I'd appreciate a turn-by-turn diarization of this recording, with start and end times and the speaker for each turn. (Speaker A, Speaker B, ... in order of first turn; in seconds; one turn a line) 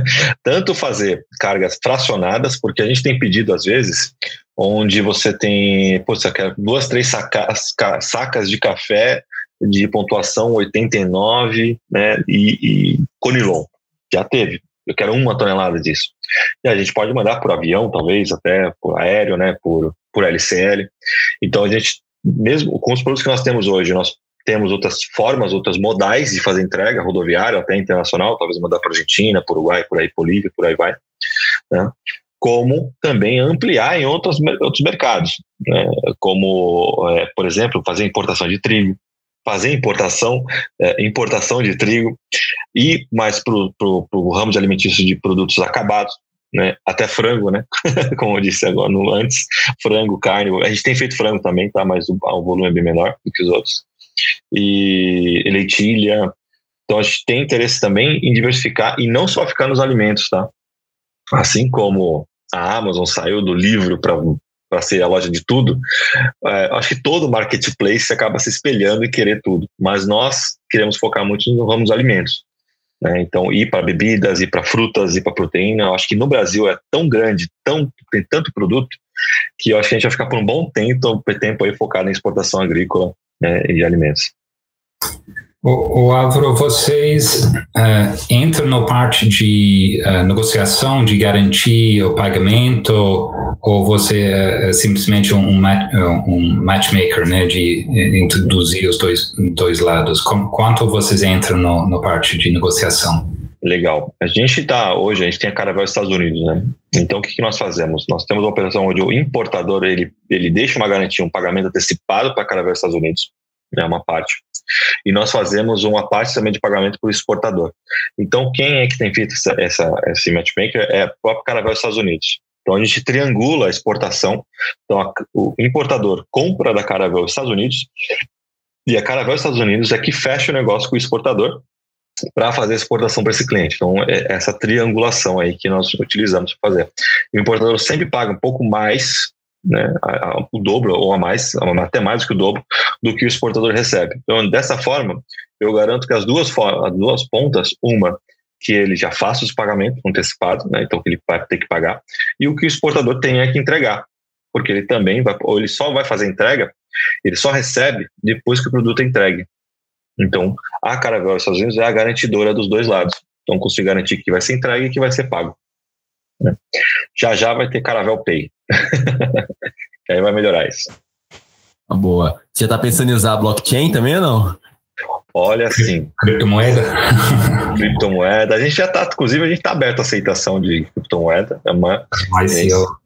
Speaker A: 0.4-20.9
Speaker A: 21.4-30.9
Speaker A: 31.7-42.2
Speaker A: 42.7-53.8
Speaker A: 54.5-56.3
Speaker A: 56.9-60.5
Speaker A: 61.3-65.8
Speaker A: 66.4-72.4
Speaker A: 73.0-79.0
Speaker A: 79.6-84.3
Speaker B: 85.6-103.2
Speaker A: 103.6-114.4
Speaker A: 115.0-127.9
Speaker A: 128.8-131.6
Speaker A: 132.3-159.5
Speaker A: 160.2-165.5
Speaker A: 167.1-169.4
Speaker A: 170.1-170.9
Speaker C: 171.9-174.6
Speaker A: 175.3-176.1
Speaker B: 175.8-177.7
Speaker A: 177.7-182.8
Speaker B: 182.2-182.9